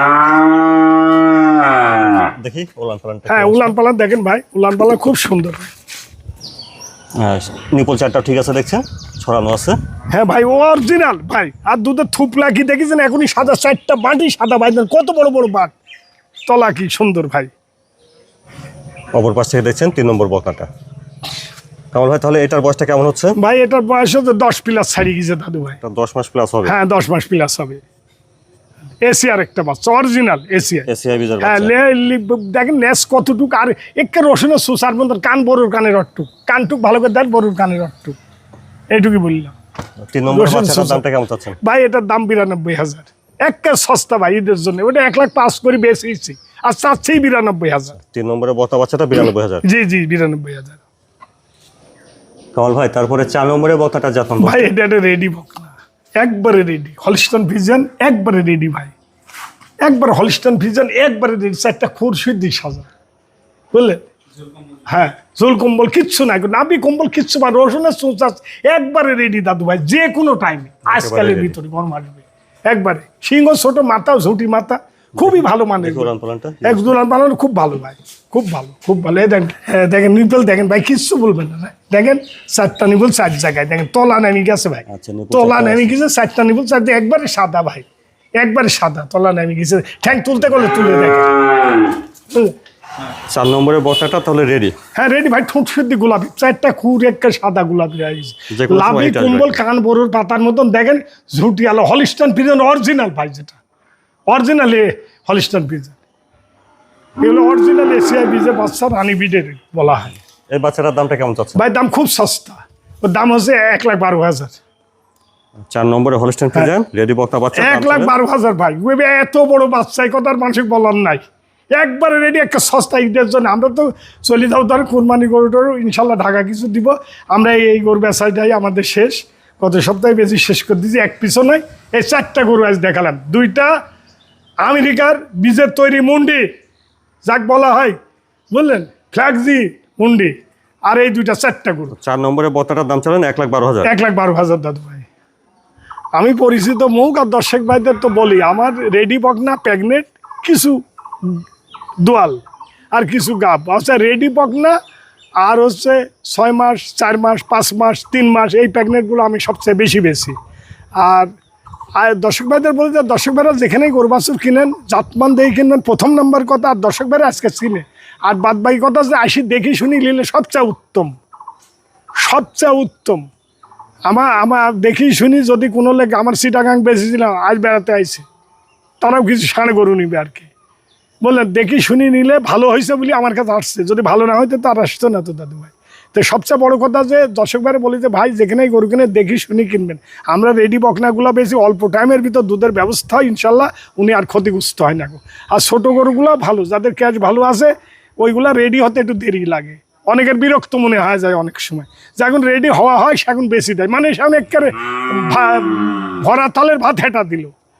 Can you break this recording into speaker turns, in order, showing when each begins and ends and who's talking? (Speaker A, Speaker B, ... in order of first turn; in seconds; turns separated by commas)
Speaker A: 2.4-3.7, Speaker B: 3.3-5.7, Speaker A: 7.2-9.8, Speaker B: 10.1-15.8, Speaker B: 16.5-17.5, Speaker A: 19.1-20.7, Speaker A: 21.9-23.4, Speaker B: 23.4-25.8, Speaker A: 25.8-26.7, Speaker B: 26.6-27.8, Speaker B: 29.0-30.9, Speaker A: 30.9-31.7, Speaker B: 31.4-38.2, Speaker B: 38.9-39.5, Speaker A: 40.1-41.6, Speaker B: 40.3-41.0, Speaker B: 41.6-48.0, Speaker A: 48.1-49.6, Speaker B: 49.6-50.8, Speaker A: 52.5-54.7, Speaker B: 54.4-58.9, Speaker B: 59.9-62.9, Speaker B: 63.7-64.1, Speaker B: 64.9-76.1, Speaker A: 70.8-71.6, Speaker A: 75.2-77.0, Speaker B: 76.6-87.9, Speaker A: 84.9-86.0, Speaker B: 88.4-91.3, Speaker A: 93.3-94.8, Speaker B: 95.0-103.6, Speaker A: 98.5-99.6, Speaker B: 104.3-106.0, Speaker B: 107.2-110.1, Speaker A: 110.5-111.6, Speaker B: 111.5-114.6, Speaker A: 115.7-118.1, Speaker B: 117.6-121.2, Speaker B: 121.8-133.7, Speaker B: 134.7-136.4, Speaker B: 137.3-138.0, Speaker B: 138.5-140.3, Speaker B: 140.9-141.9, Speaker A: 141.9-143.9, Speaker B: 143.8-145.1, Speaker B: 146.2-151.4, Speaker B: 152.0-152.4, Speaker B: 152.9-154.8, Speaker B: 155.4-160.4, Speaker B: 161.0-161.3, Speaker B: 162.0-171.2, Speaker B: 172.2-173.2, Speaker B: 174.1-178.2, Speaker B: 179.0-180.5, Speaker B: 181.2-207.5